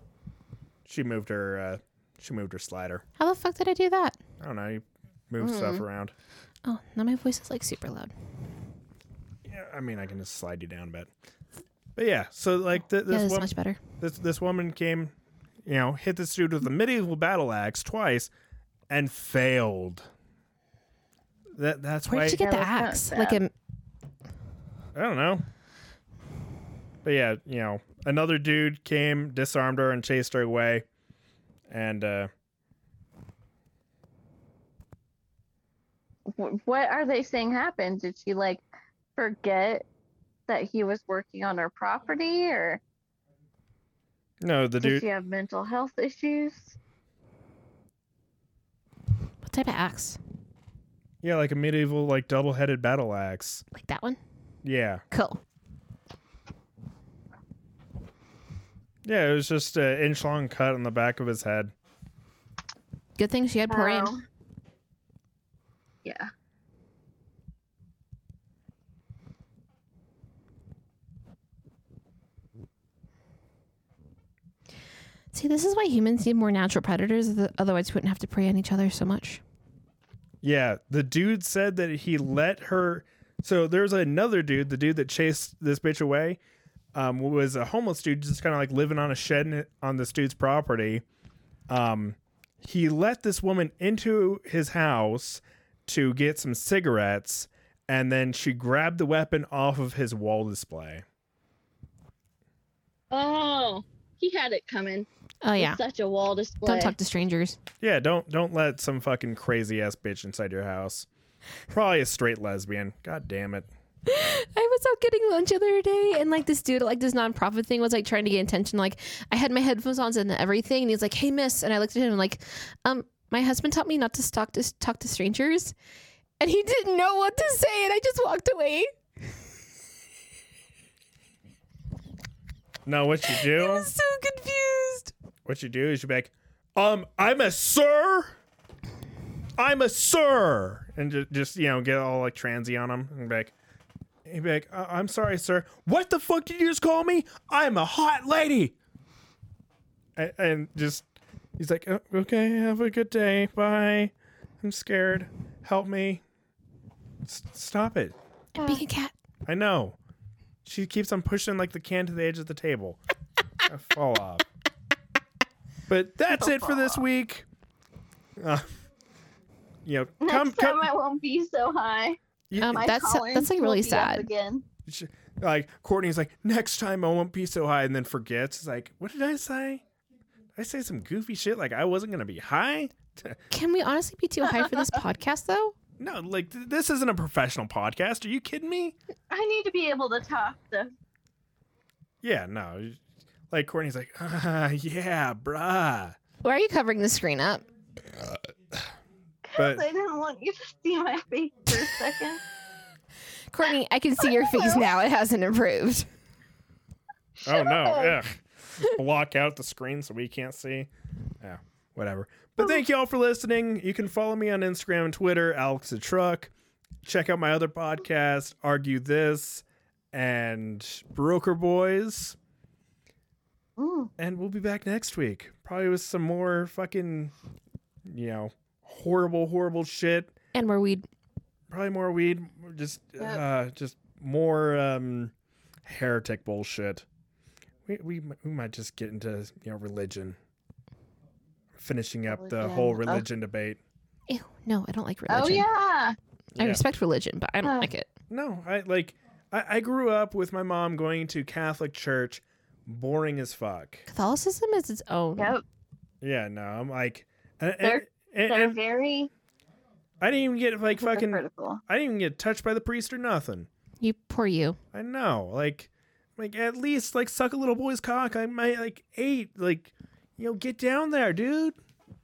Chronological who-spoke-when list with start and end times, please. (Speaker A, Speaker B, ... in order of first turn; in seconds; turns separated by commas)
Speaker A: 0.8-3.0, Speaker B: 3.2-4.2, Speaker A: 4.4-6.1, Speaker C: 5.4-5.8, Speaker B: 6.6-8.1, Speaker A: 9.4-11.1, Speaker A: 11.9-15.1, Speaker B: 13.1-13.8, Speaker A: 15.7-18.3, Speaker A: 18.9-20.1, Speaker A: 21.5-22.4, Speaker B: 22.1-23.5, Speaker C: 22.4-23.4, Speaker A: 24.9-25.4, Speaker A: 27.0-30.8, Speaker A: 31.7-32.3, Speaker C: 36.3-38.6, Speaker C: 39.1-39.9, Speaker C: 40.5-42.8, Speaker A: 44.4-45.0, Speaker C: 44.8-46.8, Speaker B: 49.4-50.2, Speaker A: 51.2-53.6, Speaker B: 53.7-54.2, Speaker A: 54.6-55.0, Speaker B: 55.1-55.4, Speaker A: 59.0-61.7, Speaker B: 63.2-64.1, Speaker C: 63.7-64.2, Speaker C: 66.0-66.3, Speaker B: 75.3-79.4, Speaker A: 80.4-86.4, Speaker A: 86.9-91.0, Speaker A: 91.7-101.0, Speaker C: 103.1-106.9, Speaker B: 105.4-105.8, Speaker B: 106.6-107.6, Speaker A: 107.8-111.1, Speaker A: 111.7-113.7, Speaker B: 114.0-125.7, Speaker B: 126.4-128.9, Speaker A: 132.8-133.9, Speaker B: 133.2-135.1, Speaker A: 135.4-138.4, Speaker A: 139.6-143.5, Speaker A: 144.2-148.8, Speaker A: 150.2-151.1, Speaker A: 151.6-156.2, Speaker A: 157.2-158.2, Speaker C: 158.6-158.8, Speaker B: 158.6-159.1, Speaker A: 159.4-160.0, Speaker A: 160.6-163.0, Speaker A: 163.6-164.4, Speaker A: 165.9-167.4, Speaker C: 166.3-167.0, Speaker A: 168.4-168.8, Speaker A: 169.8-170.9, Speaker C: 170.2-174.6, Speaker A: 172.5-172.8, Speaker B: 172.6-174.2, Speaker A: 174.8-179.8, Speaker A: 180.6-183.4, Speaker B: 183.5-185.8, Speaker C: 184.6-184.8, Speaker A: 186.0-189.0, Speaker C: 189.3-190.9, Speaker A: 192.2-196.2, Speaker B: 196.4-197.7, Speaker A: 198.1-198.8, Speaker C: 199.5-202.4, Speaker A: 199.6-199.8, Speaker B: 203.5-206.1, Speaker C: 203.6-204.9, Speaker C: 207.4-208.2, Speaker A: 207.4-216.5, Speaker A: 217.0-222.4, Speaker C: 223.8-224.1, Speaker A: 224.2-227.3, Speaker A: 228.0-230.3, Speaker B: 230.5-231.1, Speaker A: 231.7-235.3, Speaker A: 235.8-237.0, Speaker A: 237.8-240.4, Speaker A: 241.8-243.8, Speaker C: 242.3-243.3, Speaker B: 244.3-245.7, Speaker C: 245.3-246.2, Speaker B: 246.6-248.1, Speaker C: 247.6-247.9, Speaker A: 248.3-254.1, Speaker B: 254.1-255.6, Speaker C: 255.4-255.6, Speaker A: 256.2-258.8, Speaker C: 257.8-259.3, Speaker A: 260.2-263.7, Speaker C: 260.9-261.8, Speaker B: 264.0-264.8, Speaker A: 264.9-271.8